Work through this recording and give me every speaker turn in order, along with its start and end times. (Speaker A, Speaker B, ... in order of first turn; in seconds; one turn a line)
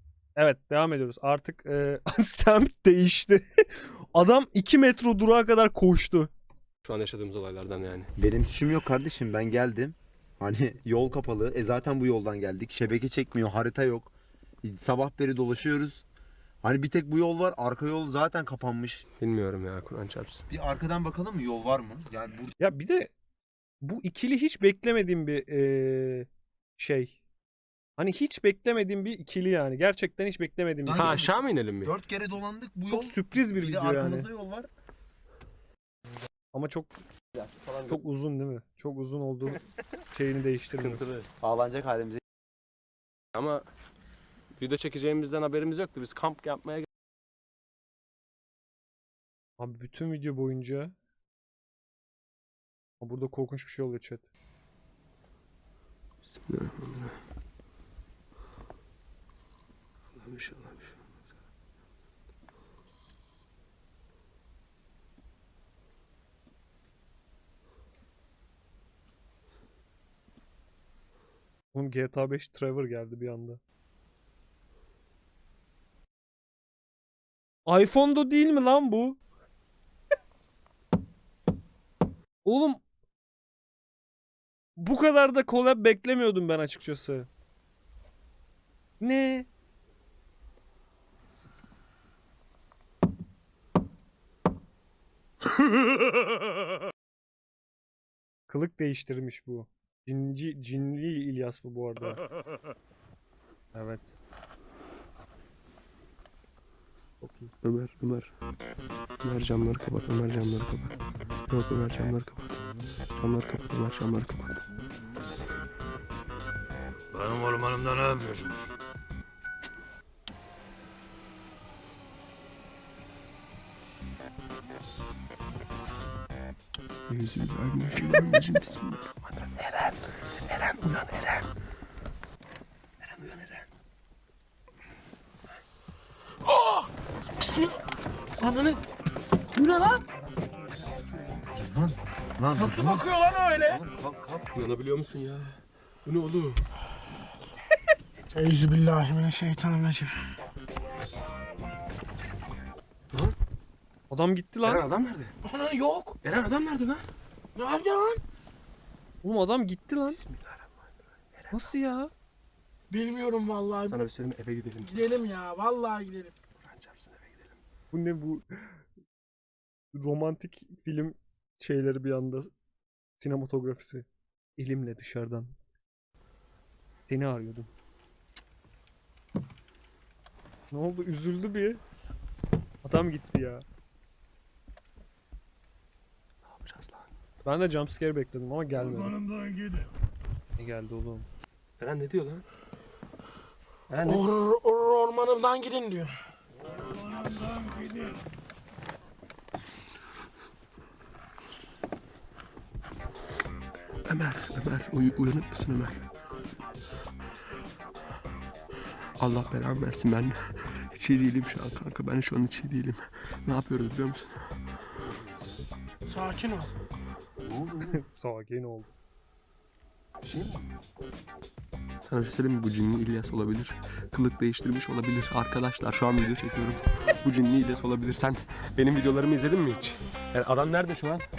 Speaker A: 0.3-6.3
Speaker B: 6.8-8.1
Speaker C: 8.2-16.0
Speaker C: 16.6-19.0
Speaker B: 19.2-20.4
Speaker C: 20.5-22.5
Speaker A: 22.6-23.1
Speaker A: 23.8-27.1
Speaker A: 28.0-31.2
Speaker C: 30.8-34.7
Speaker B: 30.9-31.9
Speaker A: 32.9-34.3
Speaker A: 36.5-37.0
Speaker A: 37.8-39.6
Speaker A: 40.1-41.0
Speaker B: 40.7-41.2
Speaker C: 41.4-42.2
Speaker B: 43.3-43.6
Speaker B: 44.6-46.9
Speaker A: 49.6-50.9
Speaker A: 53.0-54.2
Speaker B: 56.2-57.1
Speaker B: 60.1-61.0
Speaker A: 71.7-73.6
Speaker A: 77.7-79.2
Speaker A: 82.4-82.8
Speaker A: 84.8-87.3
Speaker A: 89.0-89.5
Speaker A: 98.5-102.2
Speaker A: 103.7-104.1
Speaker A: 107.2-107.5
Speaker B: 107.6-108.3
Speaker B: 109.2-110.9
Speaker B: 111.5-112.5
Speaker B: 113.2-114.5
Speaker D: 117.1-118.7
Speaker B: 127.1-131.4
Speaker B: 133.0-133.6
Speaker E: 136.5-136.9
Speaker B: 138.4-138.8
Speaker E: 139.6-140.0
Speaker C: 141.5-143.1
Speaker E: 142.6-143.8
Speaker C: 143.7-144.5
Speaker B: 144.5-146.6
Speaker E: 148.3-150.1
Speaker A: 154.1-154.8
Speaker B: 154.6-155.3
Speaker E: 155.4-156.1
Speaker B: 156.2-157.1
Speaker E: 157.6-158.2
Speaker A: 159.2-160.2
Speaker B: 160.1-161.7
Speaker A: 161.5-162.1
Speaker E: 162.9-164.0
Speaker B: 163.8-165.2
Speaker E: 164.8-166.3
Speaker B: 166.6-167.6
Speaker A: 167.9-168.8
Speaker A: 169.9-172.5
Speaker A: 173.2-175.5
Speaker A: 177.1-177.7
Speaker A: 180.7-181.8
Speaker A: 182.8-183.6
Speaker B: 186.5-187.1
Speaker A: 187.4-189.2
Speaker D: 188.9-189.9
Speaker A: 190.6-191.3
Speaker B: 191.8-192.4
Speaker B: 193.9-194.3
Speaker E: 194.1-196.1
Speaker D: 197.4-197.8
Speaker B: 204.1-206.0
Speaker B: 209.2-214.4
Speaker C: 215.0-215.6
Speaker E: 216.1-216.7
Speaker B: 217.5-217.8
Speaker A: 217.9-218.9
Speaker B: 220.2-220.7
Speaker B: 222.0-231.2